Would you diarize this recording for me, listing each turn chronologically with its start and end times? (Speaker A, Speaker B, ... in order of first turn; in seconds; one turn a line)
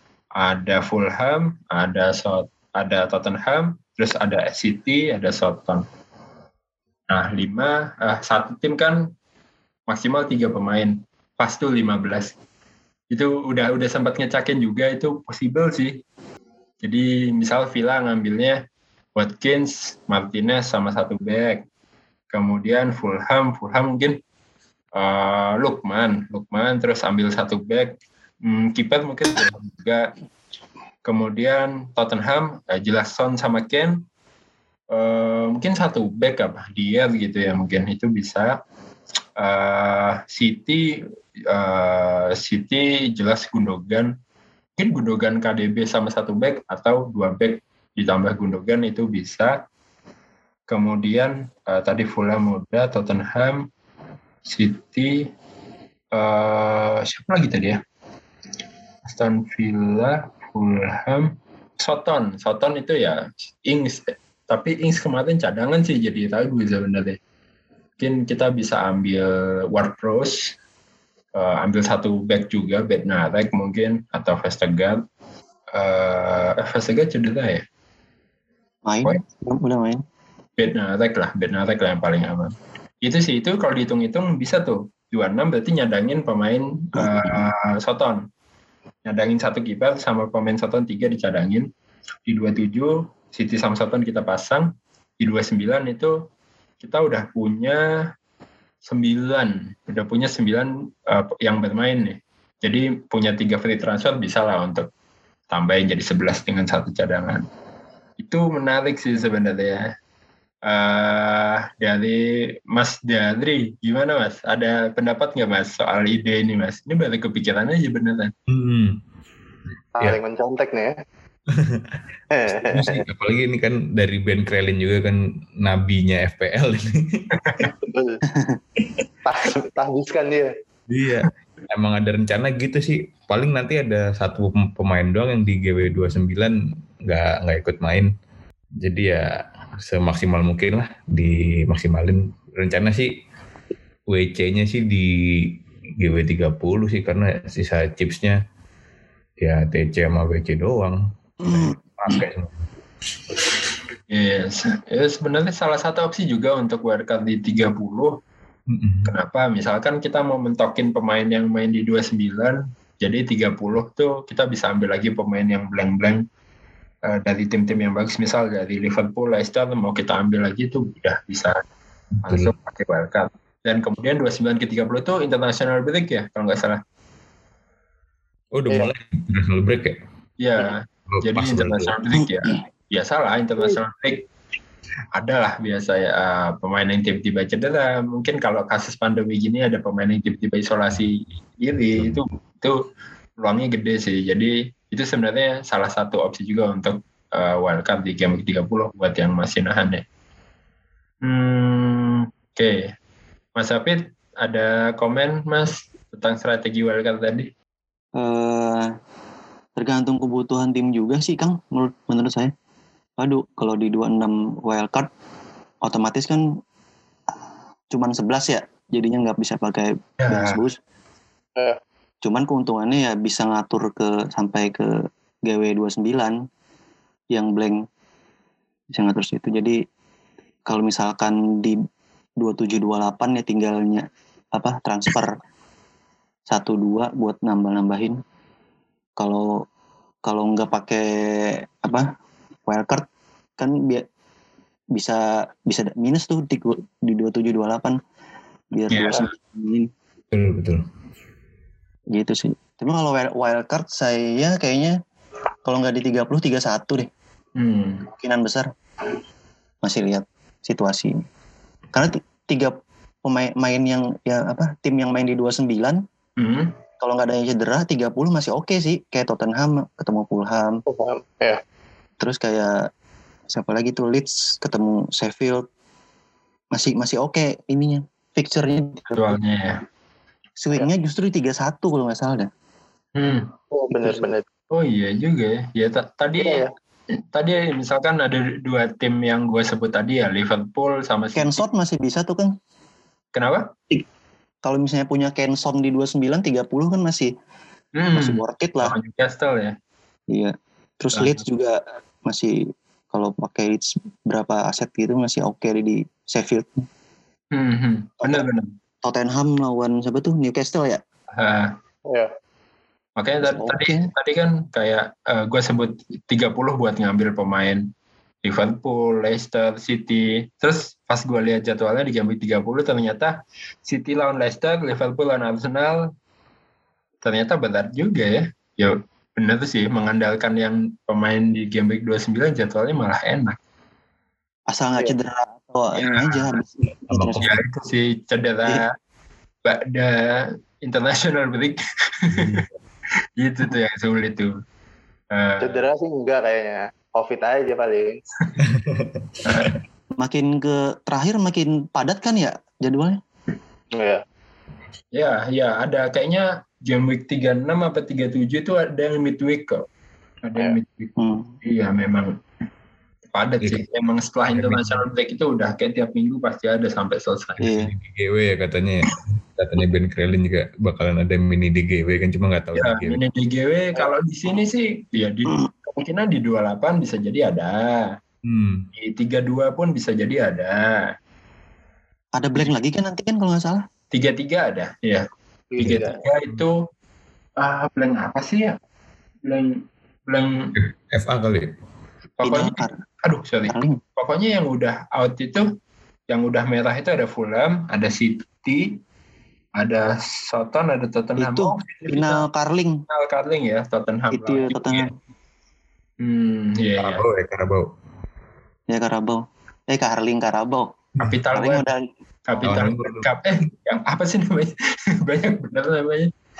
Speaker A: 0.4-5.8
Speaker A: 7.1-9.1
Speaker A: 9.9-12.3
Speaker A: 13.1-16.0
Speaker A: 16.8-18.6
Speaker A: 19.1-21.6
Speaker A: 22.3-24.2
Speaker A: 24.9-27.9
Speaker A: 28.4-30.1
Speaker A: 31.0-34.0
Speaker A: 34.9-38.6
Speaker A: 39.4-41.0
Speaker A: 41.5-44.1
Speaker A: 44.8-49.5
Speaker A: 50.7-53.7
Speaker A: 54.5-55.3
Speaker A: 56.1-57.8
Speaker A: 59.0-67.2
Speaker A: 68.0-70.5
Speaker A: 71.3-75.0
Speaker A: 75.7-77.6
Speaker B: 78.8-80.0
Speaker A: 80.6-88.3
Speaker B: 87.0-87.4
Speaker A: 89.0-91.7
Speaker A: 92.2-96.2
Speaker A: 96.8-98.1
Speaker A: 98.8-104.9
Speaker A: 105.5-107.4
Speaker A: 108.2-109.8
Speaker A: 110.6-112.2
Speaker A: 112.7-118.3
Speaker C: 118.5-119.0
Speaker D: 120.0-121.0
Speaker C: 121.5-122.0
Speaker D: 122.3-123.0
Speaker C: 122.6-127.2
Speaker A: 127.5-127.7
Speaker D: 127.9-128.2
Speaker B: 128.3-128.6
Speaker D: 129.2-130.5
Speaker C: 130.9-138.1
Speaker C: 138.8-143.1
Speaker C: 144.1-148.4
Speaker C: 149.4-152.5
Speaker B: 151.4-151.7
Speaker A: 154.1-158.2
Speaker C: 158.7-159.1
Speaker A: 159.1-166.2
Speaker A: 167.0-171.6
Speaker C: 172.2-172.5
Speaker A: 172.2-176.8
Speaker C: 178.5-180.0
Speaker A: 180.4-184.2
Speaker C: 181.1-181.9
Speaker A: 185.1-192.8
Speaker A: 193.4-200.0
Speaker A: 201.2-202.9
Speaker A: 203.6-207.5
Speaker B: 208.2-208.9
Speaker B: 209.8-212.5
Speaker B: 213.2-215.1
Speaker B: 215.8-216.4
Speaker B: 217.9-220.8
Speaker A: 220.2-220.6
Speaker B: 222.2-226.4
Speaker B: 227.3-227.8
Speaker B: 228.9-229.8
Speaker B: 230.7-231.8
Speaker B: 232.4-235.3
Speaker B: 236.5-238.2
Speaker B: 239.2-239.6
Speaker B: 240.2-242.1
Speaker B: 242.7-243.0
Speaker B: 243.6-244.1
Speaker B: 244.9-248.0
Speaker B: 248.7-249.9
Speaker A: 248.9-249.3
Speaker C: 250.3-250.8
Speaker B: 252.1-255.0
Speaker B: 255.6-257.1
Speaker A: 257.6-258.1
Speaker B: 258.1-258.7
Speaker B: 259.8-261.2
Speaker B: 261.9-266.0
Speaker A: 266.4-266.8
Speaker B: 267.0-270.8
Speaker D: 270.9-271.6
Speaker B: 272.2-272.9
Speaker B: 273.5-275.6
Speaker B: 276.7-279.4
Speaker A: 279.1-279.8
Speaker B: 280.6-282.5
Speaker A: 283.1-283.5
Speaker D: 283.7-284.4
Speaker A: 284.7-286.6
Speaker D: 286.4-286.7
Speaker A: 287.3-291.6
Speaker B: 291.3-292.5
Speaker A: 293.3-293.7
Speaker B: 294.6-297.3
Speaker A: 298.0-299.8
Speaker B: 298.1-299.0
Speaker B: 300.3-302.6
Speaker A: 301.1-301.4
Speaker B: 303.1-306.8
Speaker A: 307.5-308.7
Speaker B: 309.0-311.0
Speaker A: 311.3-311.7
Speaker A: 313.2-317.9
Speaker B: 313.4-314.1
Speaker A: 318.4-326.1
Speaker A: 327.2-333.6
Speaker B: 334.7-337.5
Speaker A: 335.9-336.6
Speaker C: 337.1-337.6
Speaker A: 337.4-338.9
Speaker A: 339.6-342.6
Speaker C: 342.4-342.7
Speaker A: 343.4-344.5
Speaker A: 345.3-345.9
Speaker D: 345.6-348.2
Speaker C: 348.6-349.7
Speaker A: 349.4-349.8
Speaker B: 350.2-353.2
Speaker D: 353.9-354.2
Speaker A: 355.1-359.8
Speaker A: 360.4-362.3
Speaker B: 361.2-361.5
Speaker A: 363.3-367.6
Speaker C: 364.5-365.1
Speaker C: 367.6-373.2
Speaker B: 367.6-367.9
Speaker A: 372.8-378.2
Speaker C: 378.4-378.9
Speaker A: 378.9-380.8
Speaker B: 382.4-383.8
Speaker A: 384.1-385.2
Speaker D: 385.7-386.2
Speaker A: 385.8-386.8
Speaker A: 387.6-388.8
Speaker A: 389.4-390.8
Speaker C: 390.8-391.7
Speaker A: 392.4-395.6
Speaker B: 392.4-393.0
Speaker B: 393.7-394.0
Speaker A: 396.3-399.0
Speaker A: 399.8-402.4
Speaker B: 401.4-403.0
Speaker A: 403.1-405.1
Speaker B: 404.3-405.1
Speaker A: 406.2-407.2
Speaker C: 407.0-407.9
Speaker B: 408.9-410.9
Speaker A: 411.2-411.9
Speaker B: 411.5-412.1
Speaker A: 412.5-416.3
Speaker C: 412.6-413.3